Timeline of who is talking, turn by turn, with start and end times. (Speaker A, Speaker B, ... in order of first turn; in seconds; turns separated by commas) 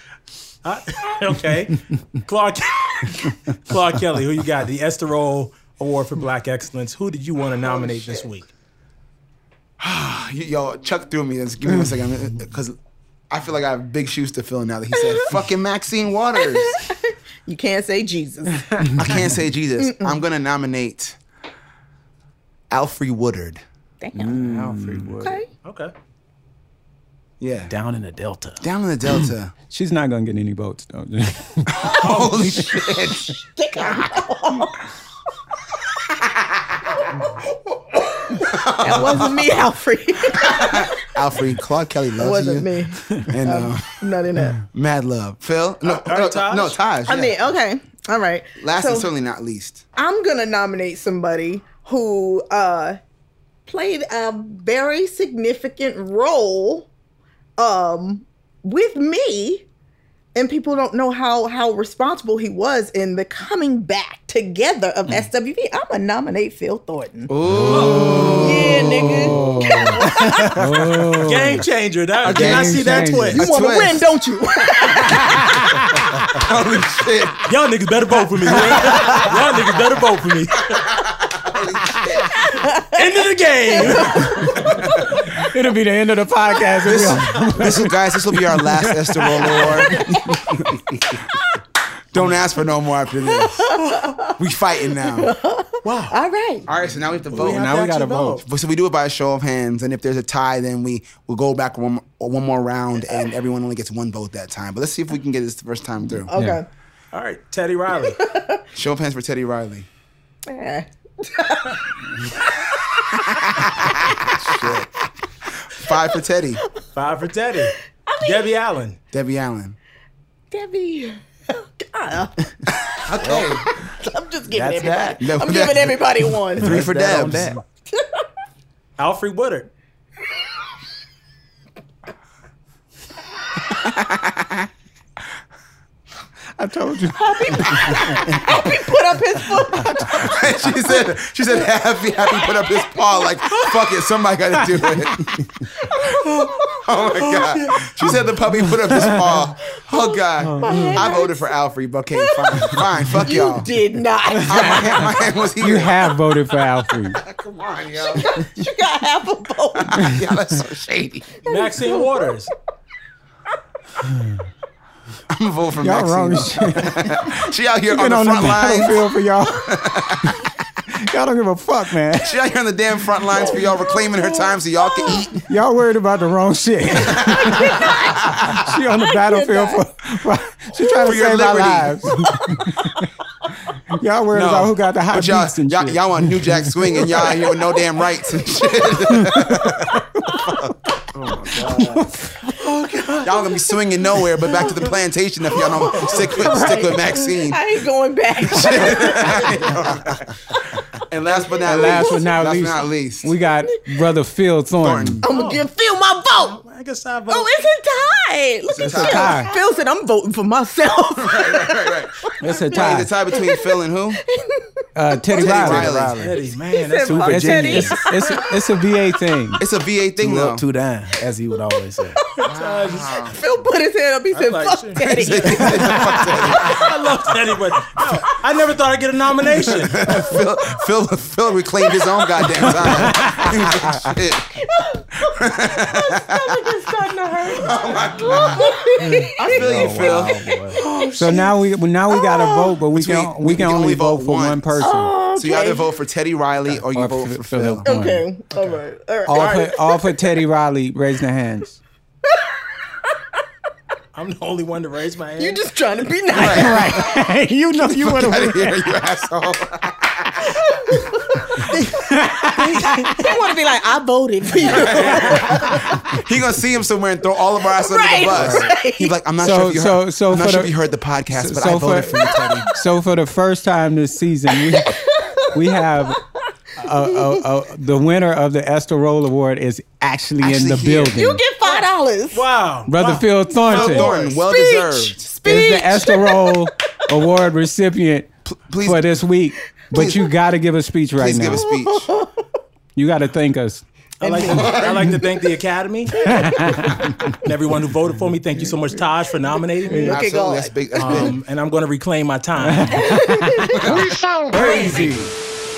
Speaker A: 0.7-8.5, Speaker B: 7.6-8.3, Speaker C: 9.8-12.8, Speaker C: 13.3-16.9, Speaker B: 16.4-18.9, Speaker C: 18.9-21.2, Speaker B: 19.8-20.2, Speaker C: 22.7-23.6, Speaker B: 24.0-25.5, Speaker D: 24.1-25.4, Speaker A: 25.6-25.9, Speaker C: 27.4-27.7, Speaker D: 27.7-28.6, Speaker C: 28.6-29.5, Speaker E: 29.7-31.9, Speaker C: 31.7-33.4, Speaker B: 31.8-34.9, Speaker A: 32.0-32.5, Speaker C: 37.2-39.6, Speaker B: 38.8-41.0, Speaker C: 40.3-44.1, Speaker B: 42.2-44.6, Speaker C: 44.6-47.5, Speaker A: 45.8-46.8, Speaker B: 47.1-49.1, Speaker C: 48.6-49.8, Speaker B: 50.0-53.0, Speaker B: 53.7-56.9, Speaker B: 57.6-59.6, Speaker B: 60.4-67.3, Speaker C: 67.3-70.0, Speaker E: 67.5-71.7, Speaker A: 67.7-68.5, Speaker B: 68.3-70.6, Speaker A: 71.2-73.4, Speaker C: 72.2-74.0, Speaker E: 72.2-73.4, Speaker B: 73.3-75.5, Speaker E: 75.4-75.7, Speaker C: 76.3-77.5, Speaker A: 77.5-80.8, Speaker C: 78.5-79.3, Speaker C: 80.7-82.5, Speaker B: 82.3-83.1, Speaker A: 82.8-84.7, Speaker B: 83.7-84.9, Speaker C: 84.7-85.2, Speaker E: 85.3-90.1, Speaker C: 86.8-91.2, Speaker C: 92.1-95.3, Speaker B: 93.3-94.4, Speaker B: 95.0-96.7, Speaker A: 95.8-96.2, Speaker C: 96.7-97.8, Speaker A: 97.3-98.4, Speaker E: 97.3-98.4, Speaker C: 98.4-106.3, Speaker B: 106.3-106.7, Speaker E: 106.3-106.6, Speaker A: 107.1-108.2, Speaker B: 108.1-108.6, Speaker C: 108.7-109.9, Speaker B: 110.5-113.7, Speaker C: 113.5-114.9, Speaker C: 115.7-116.6, Speaker A: 116.9-119.0, Speaker B: 118.1-118.5, Speaker C: 119.1-119.8, Speaker B: 120.5-122.5, Speaker C: 122.8-123.7, Speaker D: 123.1-123.6, Speaker B: 124.0-126.8, Speaker D: 124.5-125.2, Speaker C: 125.2-126.0, Speaker C: 126.6-127.6, Speaker D: 126.6-127.6, Speaker B: 127.9-128.2, Speaker A: 129.0-129.7, Speaker C: 133.7-134.7, Speaker E: 136.6-138.4, Speaker B: 137.2-140.3, Speaker C: 139.9-145.5, Speaker B: 140.9-143.7, Speaker B: 145.8-146.9, Speaker C: 146.7-153.7, Speaker A: 147.4-147.8, Speaker E: 148.9-149.4, Speaker B: 149.8-151.5, Speaker E: 150.4-151.1, Speaker B: 152.1-155.1, Speaker E: 154.3-157.2, Speaker C: 154.4-156.1, Speaker C: 157.2-158.4, Speaker B: 158.1-160.1, Speaker C: 159.8-161.4, Speaker B: 161.4-162.3, Speaker A: 161.4-162.5, Speaker C: 165.3-169.1, Speaker E: 165.8-172.4, Speaker C: 169.6-170.3, Speaker C: 172.2-175.5, Speaker B: 173.4-175.4, Speaker E: 175.5-177.9, Speaker C: 177.1-178.7, Speaker B: 177.2-179.9, Speaker E: 178.5-183.1, Speaker B: 180.8-181.1, Speaker C: 180.9-182.1, Speaker B: 182.3-182.9, Speaker E: 183.9-187.2, Speaker C: 184.3-192.1, Speaker E: 189.2-189.8, Speaker E: 191.5-192.6, Speaker B: 192.9-193.3, Speaker C: 193.1-197.6, Speaker B: 195.6-199.7, Speaker C: 198.4-200.3, Speaker C: 201.1-203.3, Speaker B: 201.3-202.5, Speaker E: 201.6-205.2, Speaker C: 204.8-205.2, Speaker B: 205.2-206.6, Speaker A: 205.2-205.7, Speaker A: 206.3-207.5, Speaker B: 207.3-213.7, Speaker C: 208.7-209.5, Speaker E: 208.8-209.5, Speaker C: 211.2-214.2, Speaker E: 212.4-213.1, Speaker B: 214.2-215.8, Speaker E: 214.9-216.1, Speaker C: 215.3-216.4, Speaker D: 215.6-216.3, Speaker A: 216.2-217.9, Speaker B: 216.7-218.8, Speaker D: 217.0-218.0, Speaker E: 217.3-219.6, Speaker C: 219.6-220.7, Speaker D: 220.2-222.3, Speaker A: 222.4-223.3, Speaker C: 222.4-223.4, Speaker B: 223.2-226.9, Speaker A: 224.3-225.9, Speaker C: 225.0-226.9, Speaker A: 226.6-230.1, Speaker C: 229.8-234.6, Speaker B: 230.1-230.4, Speaker B: 231.8-232.8, Speaker E: 232.7-234.0, Speaker B: 234.6-241.6, Speaker C: 235.2-236.7, Speaker C: 237.4-240.4, Speaker D: 239.0-240.8, Speaker E: 239.5-240.3, Speaker E: 241.1-245.1, Speaker B: 242.1-242.8, Speaker C: 242.9-247.8, Speaker B: 244.8-245.9, Speaker E: 246.9-248.3, Speaker B: 247.8-250.1, Speaker E: 249.3-251.8, Speaker A: 249.3-249.7, Speaker A: 254.1-255.6, Speaker B: 255.4-257.0, Speaker C: 256.3-257.1, Speaker E: 256.3-258.9, Speaker C: 257.8-260.6, Speaker B: 260.7-266.0, Speaker E: 261.8-263.4, Speaker C: 264.6-272.7, Speaker B: 267.6-269.1, Speaker E: 269.4-276.2, Speaker B: 274.6-275.8, Speaker E: 276.8-281.4, Speaker C: 280.4-281.2, Speaker B: 281.1-282.4, Speaker A: 282.3-284.4, Speaker E: 282.9-284.1, Speaker C: 283.7-285.3, Speaker B: 284.4-286.7, Speaker E: 285.4-291.7, Speaker C: 288.5-289.2, Speaker C: 289.9-290.3, Speaker C: 291.2-292.1, Speaker B: 291.5-292.4, Speaker E: 293.0-293.8, Speaker A: 294.2-296.5, Speaker B: 294.2-295.3, Speaker C: 294.5-294.9, Speaker E: 296.3-297.1, Speaker B: 296.3-296.9, Speaker A: 297.3-300.2, Speaker E: 298.5-299.0, Speaker B: 299.9-301.3, Speaker C: 299.9-301.4, Speaker A: 300.9-303.1, Speaker E: 302.6-303.9, Speaker B: 302.9-304.1, Speaker C: 303.7-304.1, Speaker D: 304.5-305.3, Speaker E: 304.5-305.0